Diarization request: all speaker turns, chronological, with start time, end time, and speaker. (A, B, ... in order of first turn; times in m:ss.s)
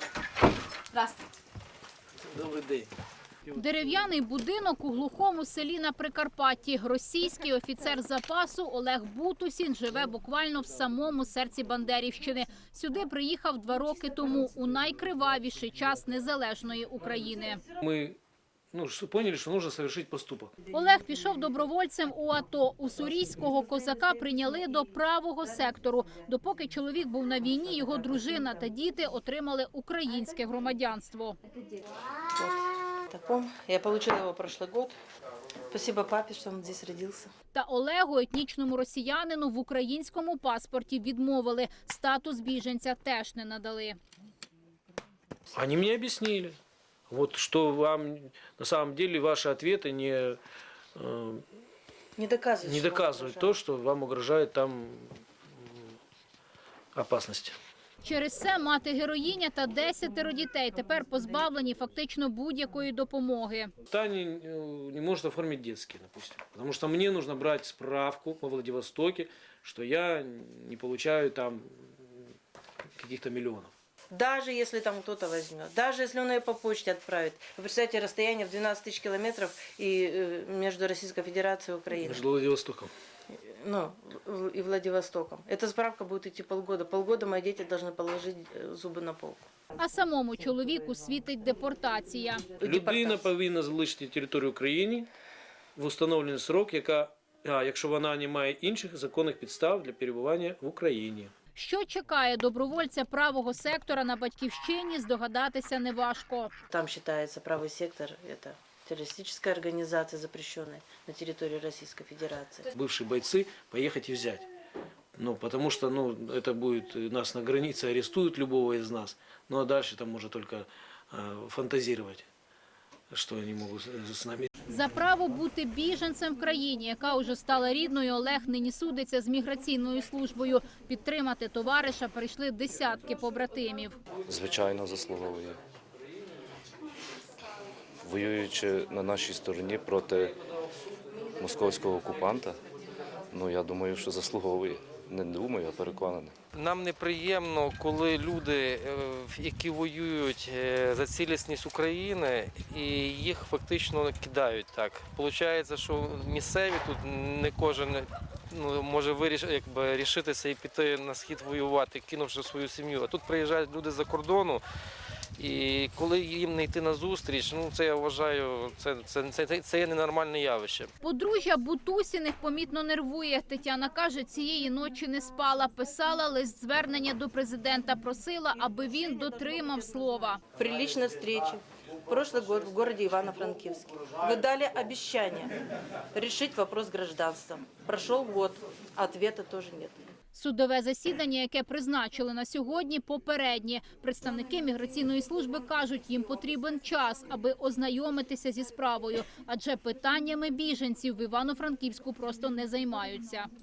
0:02.2-0:02.9 A
0:03.5-0:17.6 B
0:17.8-0:18.2 A
0:18.7-0:20.5 A
0:20.7-0:31.4 B
0:32.3-0:35.0 C
0:35.7-0:37.3 C
0:37.5-0:44.0 B
0:45.5-0:46.6 A
0:47.1-0:50.4 A
0:51.0-0:51.4 A
0:52.2-0:53.5 C
0:52.6-0:56.0 A
0:57.0-0:57.6 A
0:58.0-1:03.7 B
1:03.9-1:12.3 A
1:13.0-1:13.7 A
1:14.1-1:22.3 C
1:22.0-1:22.9 A
1:23.3-1:29.4 C
1:29.8-1:32.4 B
1:32.6-1:33.2 C
1:32.6-1:35.1 A
1:35.8-1:41.3 A
1:41.6-1:46.5 B
1:46.7-1:52.7 C
1:52.7-1:54.5 A
1:55.2-2:02.3 A
2:03.1-2:04.5 A
2:04.7-2:14.0 B
2:14.3-2:15.6 D
2:18.0-2:20.4 D
2:21.4-2:22.6 D
2:23.3-2:26.4 D
2:26.5-2:44.6 E
2:45.4-2:50.9 E
2:51.0-3:00.4 B
3:00.6-3:05.5 C
3:06.1-3:10.1 C
3:10.3-3:23.5 B